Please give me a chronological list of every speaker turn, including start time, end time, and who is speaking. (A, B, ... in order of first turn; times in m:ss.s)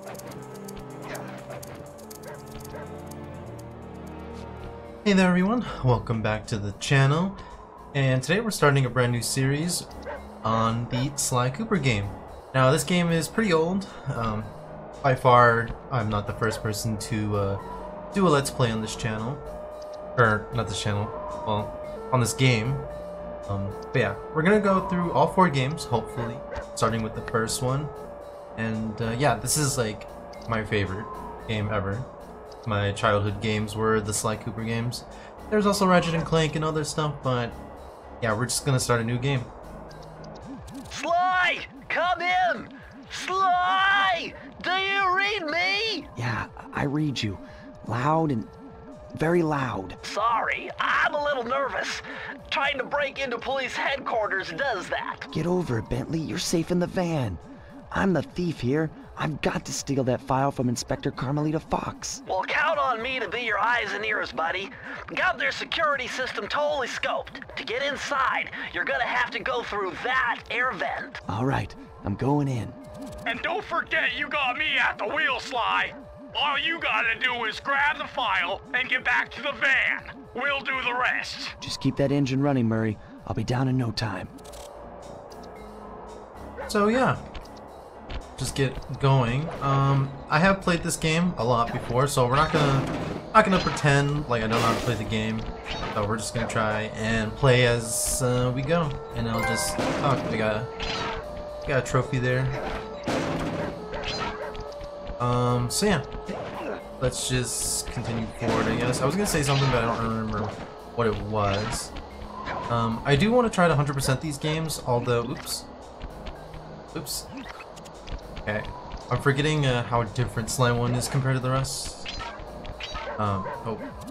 0:05.0-0:07.4 A
0:07.9-0:09.9 A
0:10.4-0:17.6 A
0:18.1-0:19.4 A
0:20.2-0:22.9 A
0:23.5-0:27.9 A
0:28.6-0:32.1 A
0:32.6-0:37.6 A
0:38.2-0:39.5 A
0:40.9-0:46.1 B
0:46.2-0:48.5 C
0:49.1-0:50.0 C
0:50.0-0:55.3 B
0:55.3-1:02.2 C
1:02.2-1:11.2 B
1:11.3-1:12.8 C
1:13.2-1:21.5 D
1:21.6-1:24.3 C
1:26.7-1:27.2 A
1:28.4-1:40.7 A
1:41.6-1:42.6 A
1:45.2-1:46.1 A
1:47.0-1:51.9 A
1:52.7-1:55.7 A
1:56.9-1:57.3 A
1:58.4-2:02.1 A
2:03.2-2:03.9 A